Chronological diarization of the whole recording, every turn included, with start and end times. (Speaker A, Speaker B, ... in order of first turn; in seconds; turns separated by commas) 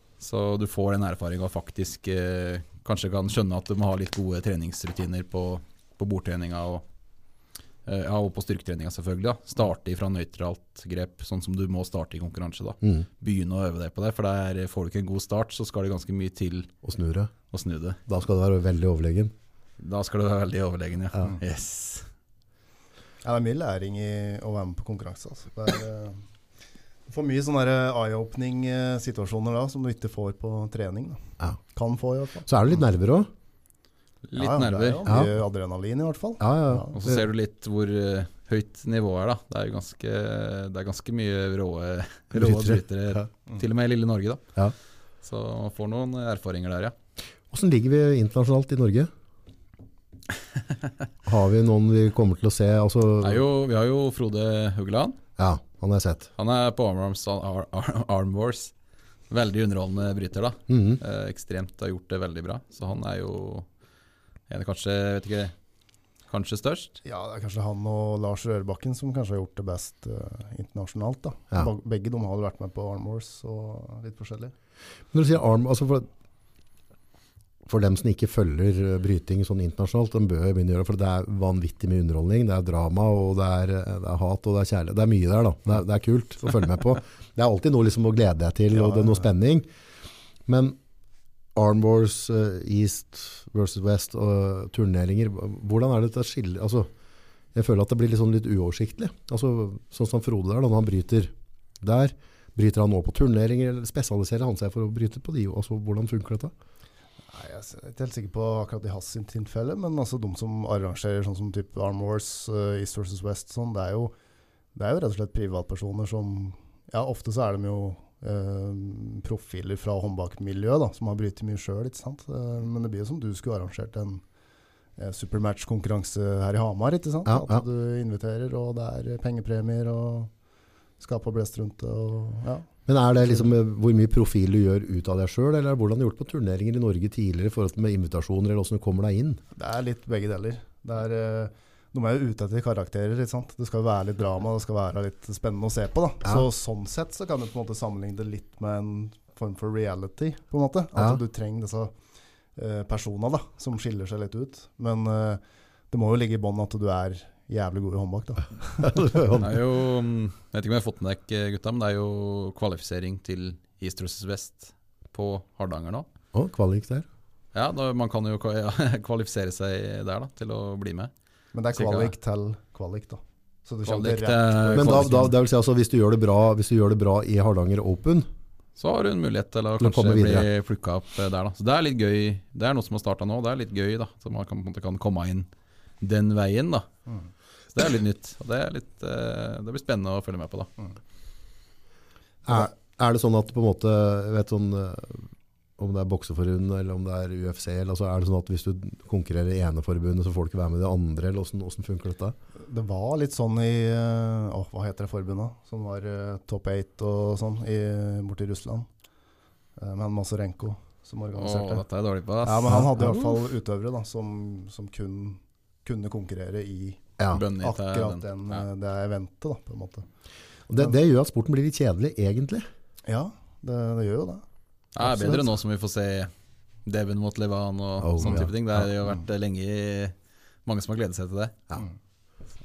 Speaker A: 0.2-6.8, Speaker A: 7.8-16.7, Speaker B: 12.8-13.1, Speaker B: 16.8-17.3, Speaker A: 17.5-18.0, Speaker B: 18.1-19.3, Speaker A: 19.8-22.1, Speaker C: 23.2-26.2, Speaker C: 27.1-31.2, Speaker C: 31.7-32.5, Speaker B: 32.5-33.3, Speaker A: 34.3-35.1, Speaker C: 34.4-37.0, Speaker B: 35.0-35.3, Speaker B: 36.4-37.2, Speaker A: 36.9-44.4, Speaker B: 42.3-43.2, Speaker A: 45.2-46.9, Speaker B: 47.5-49.1, Speaker B: 51.2-53.4, Speaker A: 53.2-55.2, Speaker B: 55.4-56.3, Speaker A: 56.4-58.7, Speaker A: 59.3-63.7, Speaker B: 60.7-61.0, Speaker A: 64.5-65.5, Speaker A: 66.3-67.0, Speaker C: 67.0-74.5, Speaker B: 75.1-76.1, Speaker B: 77.7-89.7, Speaker C: 88.7-89.2, Speaker B: 90.5-90.8, Speaker B: 91.5-96.9, Speaker B: 97.5-106.5, Speaker C: 107.3-114.1, Speaker C: 114.8-124.2, Speaker C: 125.0-130.3, Speaker B: 127.2-127.6, Speaker C: 131.0-132.7, Speaker B: 132.9-139.4, Speaker C: 133.2-133.5, Speaker C: 139.5-151.9, Speaker C: 152.6-159.0, Speaker B: 158.8-159.6, Speaker A: 159.4-166.1, Speaker B: 166.3-167.1, Speaker A: 167.5-171.1, Speaker C: 171.5-175.3, Speaker A: 171.8-172.1, Speaker A: 173.8-175.3, Speaker B: 174.7-178.3, Speaker A: 178.8-185.5, Speaker B: 179.8-180.5, Speaker A: 186.0-186.9, Speaker A: 187.7-190.7, Speaker B: 192.4-202.3, Speaker C: 202.6-208.9, Speaker C: 209.8-211.8, Speaker A: 211.3-212.9, Speaker C: 212.4-217.0, Speaker B: 212.7-213.4, Speaker B: 217.2-217.4, Speaker A: 217.3-218.6, Speaker C: 217.6-220.0, Speaker B: 220.7-222.7, Speaker C: 223.1-224.4, Speaker A: 224.9-226.3, Speaker C: 225.0-225.5, Speaker A: 226.8-230.1, Speaker B: 228.0-228.9, Speaker A: 230.7-231.5